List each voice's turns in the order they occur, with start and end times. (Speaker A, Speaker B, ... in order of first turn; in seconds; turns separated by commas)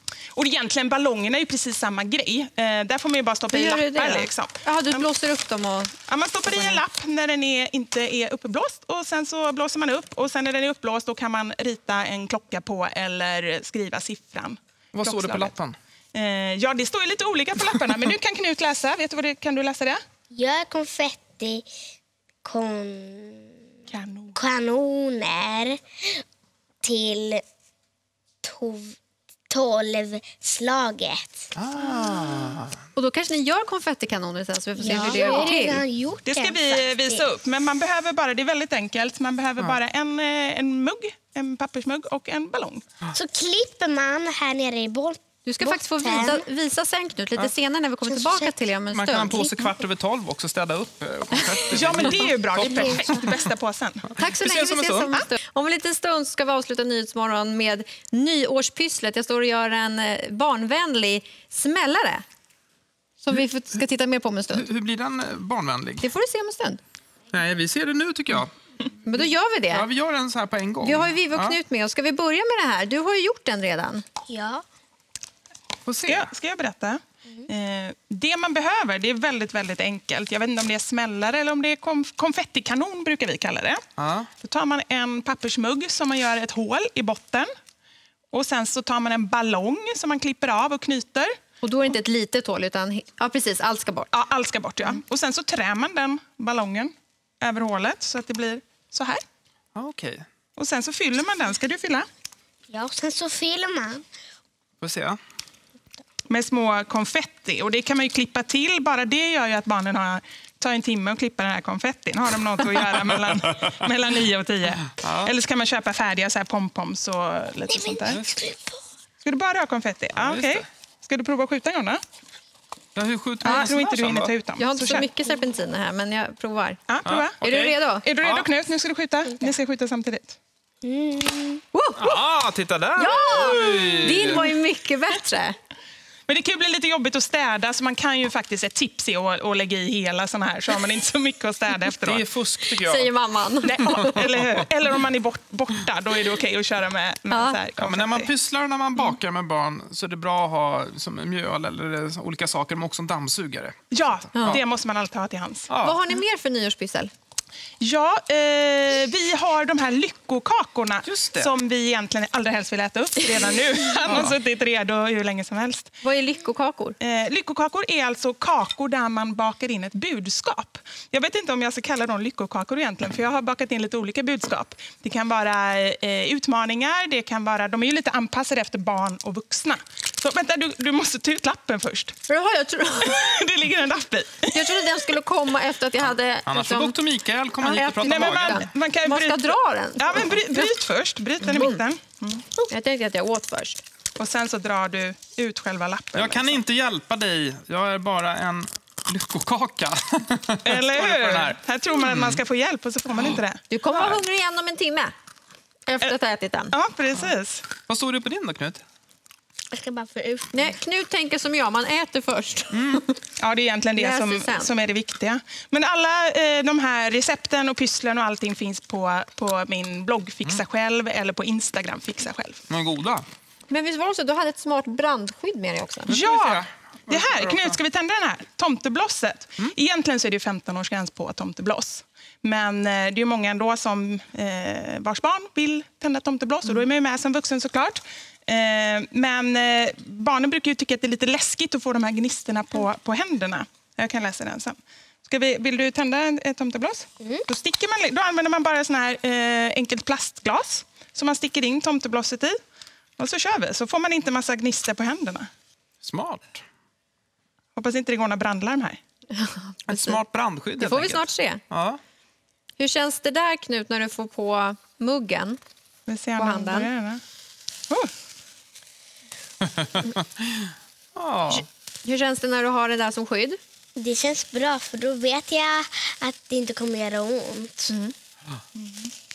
Speaker A: 0.3-5.1, Speaker B: 3.5-5.9, Speaker A: 6.1-15.5, Speaker B: 6.4-6.8, Speaker C: 14.9-15.8, Speaker A: 16.1-20.0, Speaker D: 20.3-21.6, Speaker D: 22.4-23.5, Speaker A: 23.9-24.4, Speaker D: 24.4-26.2, Speaker D: 26.8-27.4, Speaker D: 28.4-29.0, Speaker D: 29.5-31.5, Speaker C: 31.5-32.7, Speaker B: 32.9-35.8, Speaker D: 34.8-37.2, Speaker A: 34.9-35.3, Speaker A: 36.2-42.8, Speaker D: 43.1-46.5, Speaker B: 45.5-49.6, Speaker D: 48.0-48.5, Speaker C: 48.9-53.3, Speaker A: 51.7-54.1, Speaker C: 54.1-55.2, Speaker B: 54.2-62.2, Speaker B: 63.2-64.7, Speaker C: 64.5-66.0, Speaker B: 66.0-66.8, Speaker C: 67.3-68.5, Speaker B: 69.0-69.8, Speaker C: 69.7-71.6, Speaker B: 70.8-74.0, Speaker D: 74.3-74.6, Speaker C: 75.8-76.3, Speaker A: 76.1-83.8, Speaker C: 84.0-84.3, Speaker A: 84.4-87.5, Speaker A: 88.3-91.3, Speaker B: 91.6-94.1, Speaker A: 94.1-99.2, Speaker C: 99.8-100.2, Speaker A: 100.5-102.0, Speaker D: 102.7-104.1, Speaker C: 104.8-105.2, Speaker A: 106.3-118.2, Speaker C: 115.0-115.3, Speaker D: 117.7-118.8, Speaker C: 118.1-118.3, Speaker A: 119.2-122.0, Speaker C: 120.2-120.6, Speaker C: 122.9-124.3, Speaker A: 123.4-125.1, Speaker B: 124.6-126.8, Speaker A: 126.9-127.4, Speaker C: 127.0-128.5, Speaker B: 127.4-128.0, Speaker A: 128.0-130.4, Speaker D: 130.8-131.6, Speaker B: 131.7-132.2, Speaker C: 132.0-134.5, Speaker B: 132.9-135.6, Speaker A: 136.3-142.2, Speaker C: 142.1-143.1, Speaker B: 142.8-144.1, Speaker A: 143.6-148.3, Speaker B: 147.3-147.6, Speaker C: 147.8-153.8, Speaker A: 153.9-155.7, Speaker C: 154.3-154.6, Speaker C: 155.7-156.0, Speaker B: 155.8-157.1, Speaker A: 157.8-166.0, Speaker C: 161.0-161.5, Speaker B: 166.0-167.0, Speaker A: 167.0-182.2, Speaker B: 182.3-183.2, Speaker A: 183.0-184.8, Speaker B: 184.5-186.9, Speaker C: 186.5-188.6, Speaker B: 187.6-190.7, Speaker A: 188.0-192.7, Speaker B: 191.4-191.8, Speaker B: 192.7-193.8, Speaker A: 194.2-196.6, Speaker C: 196.1-202.4, Speaker A: 200.6-203.7, Speaker B: 203.7-205.1, Speaker B: 205.9-206.7, Speaker A: 206.7-207.7, Speaker C: 207.9-208.8, Speaker D: 209.7-210.7, Speaker B: 210.5-213.2, Speaker C: 212.7-213.0, Speaker A: 213.4-222.6, Speaker B: 213.9-214.7, Speaker C: 222.7-223.2, Speaker B: 223.7-226.1, Speaker C: 226.1-227.8, Speaker A: 226.1-252.6, Speaker A: 253.2-255.5, Speaker C: 256.0-256.6, Speaker A: 257.8-259.0, Speaker B: 259.3-260.2, Speaker C: 259.9-262.0, Speaker B: 260.8-261.6, Speaker B: 262.8-265.6, Speaker A: 266.1-267.2, Speaker B: 266.4-266.9, Speaker C: 269.8-271.6, Speaker B: 272.0-273.6, Speaker D: 273.9-277.9, Speaker A: 278.8-279.1